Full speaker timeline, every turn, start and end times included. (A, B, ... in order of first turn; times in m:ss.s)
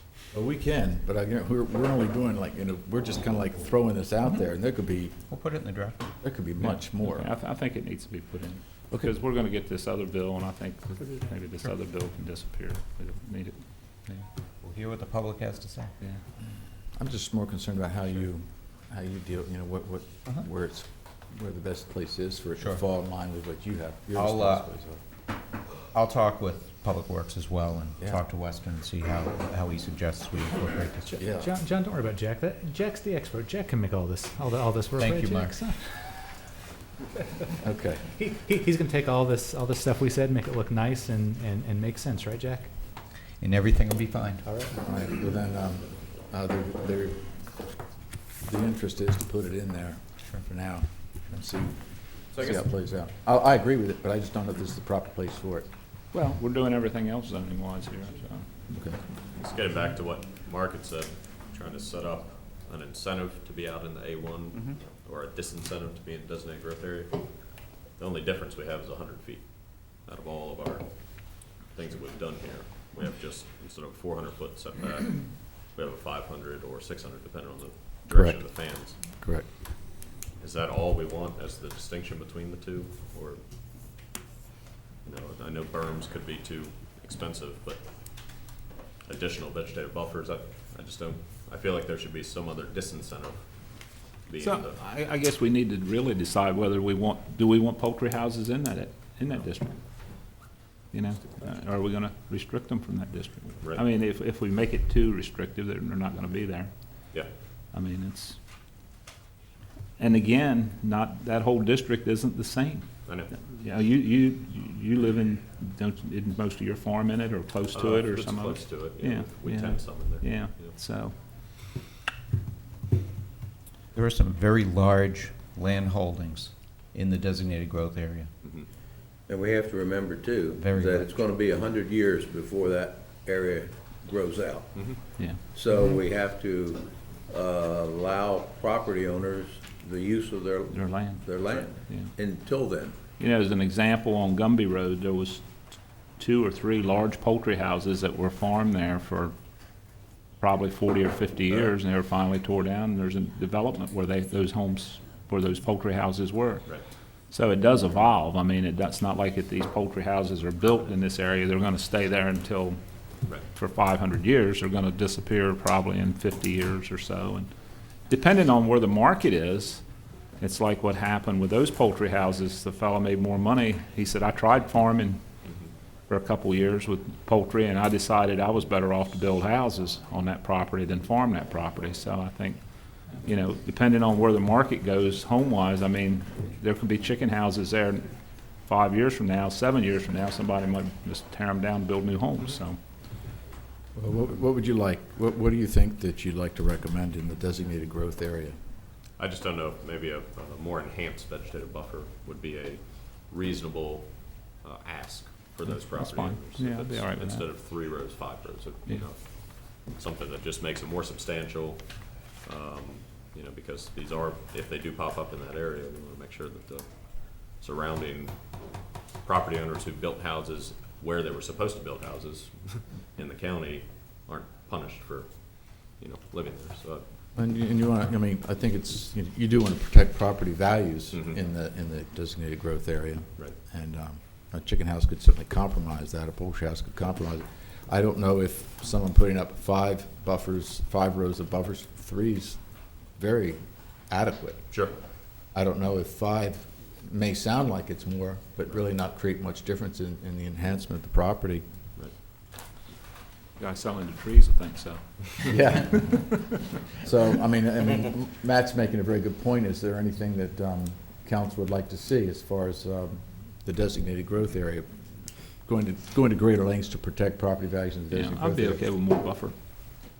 0:00.3-0:05.2 A
0:05.3-0:06.0 B
0:06.2-0:07.3 A
0:06.6-0:14.2 C
0:14.6-0:15.9 B
0:17.0-0:25.0 A
0:24.1-0:24.7 B
0:25.9-0:31.2 B
0:31.1-0:36.3 D
0:31.2-0:31.5 A
0:35.0-0:35.6 B
0:37.6-0:38.1 A
0:38.1-0:42.7 D
0:43.4-0:44.4 B
0:44.4-0:44.8 D
0:44.7-0:47.4 A
0:48.4-0:55.7 A
0:52.3-0:52.6 E
0:56.1-0:58.5 C
0:58.7-0:59.0 A
0:59.4-1:19.0 E
1:18.1-1:18.4 A
1:19.0-1:19.5 A
1:20.4-1:23.4 E
1:25.0-1:34.8 E
1:34.4-1:39.8 C
1:40.9-1:47.0 C
1:47.7-1:48.4 C
1:50.0-2:01.2 C
1:53.0-1:53.3 E
1:57.7-2:00.8 E
2:03.9-2:08.3 B
2:09.3-2:15.0 F
2:10.5-2:11.1 B
2:14.7-2:15.0 E
2:15.5-2:23.0 F
2:20.7-2:22.1 C
2:23.2-2:29.3 C
2:30.4-2:36.7 C
2:37.3-2:42.8 C
2:43.5-2:47.5 C
2:48.1-2:49.8 C
2:50.4-2:55.2 C
2:55.4-2:55.7 E
2:56.1-3:08.0 C
3:08.6-3:12.8 C
3:13.9-3:18.6 A
3:19.2-3:47.0 E
3:25.7-3:27.5 C
3:47.4-4:04.8 A
3:51.1-3:51.4 E
4:05.5-4:11.6 A
4:13.6-4:16.4 C
4:15.5-4:16.4 A
4:17.0-4:25.0 A
4:25.6-4:28.8 A
4:28.1-4:29.5 C